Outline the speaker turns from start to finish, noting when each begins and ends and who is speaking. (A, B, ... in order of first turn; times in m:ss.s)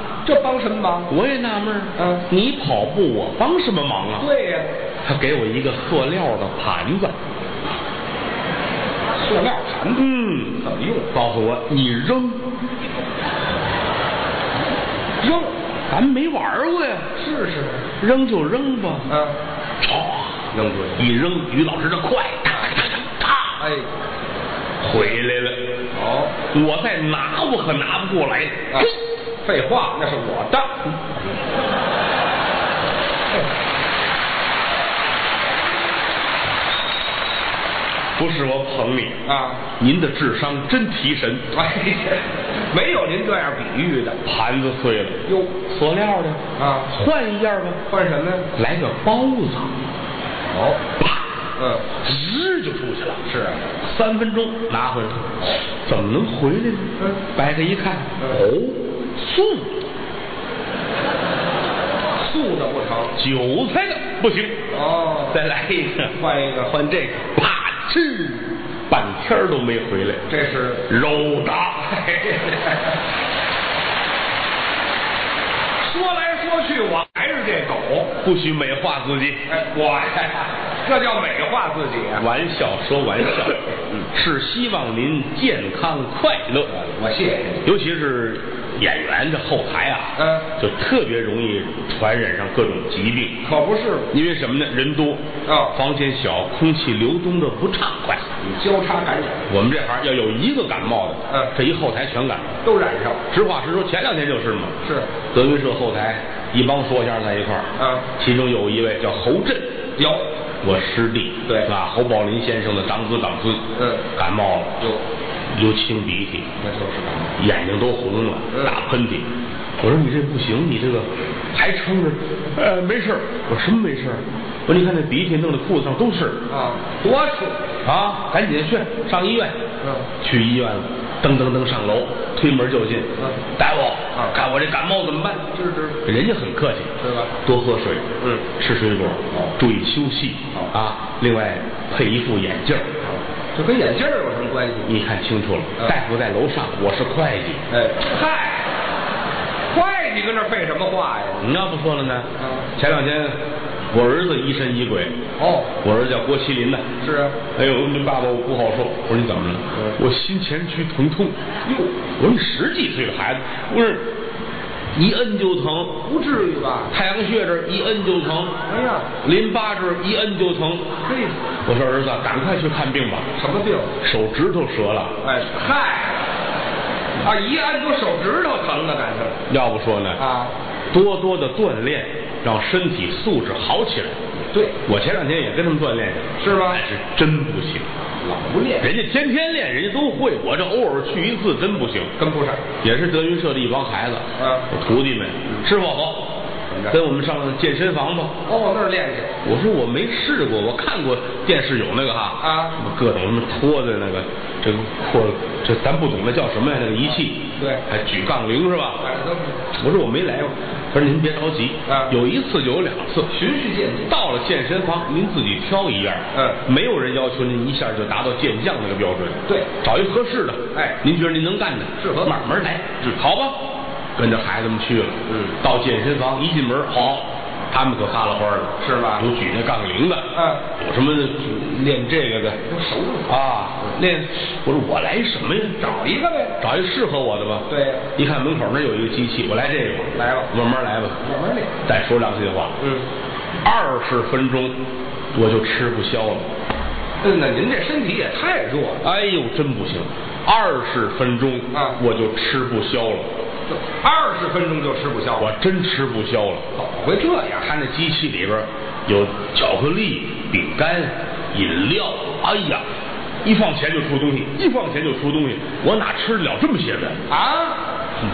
0:00.2-0:01.1 A
0:01.1-0:04.3 B
0:02.0-0:02.2 A
0:04.2-0:04.7 A
0:05.0-0:07.1 B
0:09.2-0:11.1 A
0:09.9-0:12.4 B
0:15.2-0:15.5 A
0:15.9-0:17.1 B
0:17.1-0:17.9 A
0:18.0-0:19.1 B
0:19.1-0:19.4 A
0:19.8-0:20.4 B
0:20.5-0:21.1 A
0:21.0-0:23.6 B
0:23.6-0:23.9 A
0:24.8-0:25.7 B
0:24.9-0:25.2 A
0:25.9-0:26.4 A
0:26.5-0:29.0 B
0:29.4-0:30.8 A
0:38.2-0:39.2 B
0:39.2-0:39.6 A
0:39.8-0:41.4 B
0:41.5-0:44.2 A
0:44.2-0:47.8 B
0:45.2-0:45.5 A
0:46.6-0:46.9 A
0:47.9-0:48.4 A
0:48.5-0:49.7 B
0:50.5-0:50.8 A
0:51.0-0:51.2 B
0:51.6-0:51.9 A
0:52.0-0:53.2 B
0:53.2-0:53.6 A
0:53.8-0:59.8 B
0:57.0-0:57.2 A
1:02.2-1:03.1 A
1:03.2-1:04.6 B
1:04.7-1:05.4 A
1:05.3-1:06.1 B
1:06.1-1:07.2 A
1:07.1-1:10.2 B
1:10.3-1:10.9 A
1:10.9-1:11.9 B
1:11.8-1:13.0 A
1:15.8-1:18.1 A
1:18.2-1:19.5 B
1:19.5-1:22.3 A
1:22.2-1:26.7 B
1:26.7-1:27.7 A
1:27.6-1:33.4 B
1:30.2-1:30.4 A
1:33.4-1:34.1 A
1:34.1-1:38.3 B
1:35.4-1:35.7 A
1:38.4-1:39.5 A
1:39.5-1:42.6 B
1:41.3-1:41.5 A
1:42.6-1:43.2 A
1:43.3-1:44.7 B
1:44.8-1:45.1 A
1:45.3-1:49.7 B
1:47.8-1:48.1 A
1:50.0-1:50.3 A
1:50.6-1:54.8 B
1:53.8-1:54.1 A
1:55.5-1:56.5 B
1:56.6-1:57.4 A
1:57.4-1:59.3 B
1:58.5-1:58.8 A
1:59.8-2:06.4 B
2:06.5-2:07.6 A
2:07.8-2:09.5 B
2:09.8-2:10.1 A
2:10.2-2:16.9 B
2:13.2-2:13.4 A
2:15.5-2:16.0 A
2:17.0-2:17.3 A
2:17.4-2:18.0 B
2:18.2-2:18.5 A
2:18.6-2:23.0 B
2:23.5-2:24.9 A
2:24.8-2:27.6 B
2:27.7-2:28.7 A
2:29.7-2:31.6 A
2:31.4-2:33.4 B
2:32.4-2:32.7 A
2:33.9-2:35.1 B
2:35.4-2:35.7 A
2:35.8-2:36.9 B
2:37.0-2:37.4 A
2:37.5-2:41.4 B
2:42.2-2:44.0 B
2:44.9-2:46.0 B
2:46.0-2:46.9 A
2:46.9-2:48.6 B
2:48.7-2:49.1 A
2:49.2-2:50.9 B
2:51.0-2:51.4 A
2:51.6-2:53.3 B
2:53.4-2:53.9 A
2:54.0-2:55.1 B
2:55.2-2:56.3 A
2:57.2-2:59.4 A
2:59.5-3:00.2 B
3:00.2-3:00.5 A
3:00.9-3:04.2 B
3:04.5-3:04.8 A
3:04.8-3:07.9 B
3:06.4-3:06.8 A
3:08.2-3:08.9 A
3:08.8-3:12.1 B
3:12.2-3:12.7 A
3:12.8-3:16.2 B
3:14.4-3:14.7 A
3:16.7-3:17.0 A
3:16.9-3:18.4 B
3:18.4-3:19.3 A
3:19.4-3:29.0 B
3:22.4-3:22.8 A
3:27.6-3:27.8 A
3:29.0-3:29.6 A
3:29.7-3:33.3 B
3:31.9-3:32.2 A
3:33.3-3:34.2 A
3:34.1-3:43.6 B
3:36.3-3:36.6 A
3:40.7-3:41.0 A
3:42.0-3:42.4 A
3:44.2-3:52.6 B
3:45.3-3:45.6 A
3:48.8-3:49.3 A
3:50.3-3:50.6 A
3:52.6-3:53.9 A
3:53.3-3:55.9 B
3:55.8-3:56.6 A
3:56.6-4:01.2 B
3:57.7-3:58.1 A
4:00.1-4:00.5 A
4:01.2-4:01.7 A
4:01.8-4:02.8 B
4:02.8-4:03.1 A
4:03.6-4:04.8 B
4:05.3-4:06.4 B
4:07.2-4:09.0 A
4:09.0-4:13.3 B
4:11.7-4:12.0 A
4:13.7-4:15.5 A
4:15.4-4:16.6 B
4:16.7-4:17.7 A
4:17.6-4:22.8 B
4:23.4-4:27.2 B
4:27.3-4:27.8 A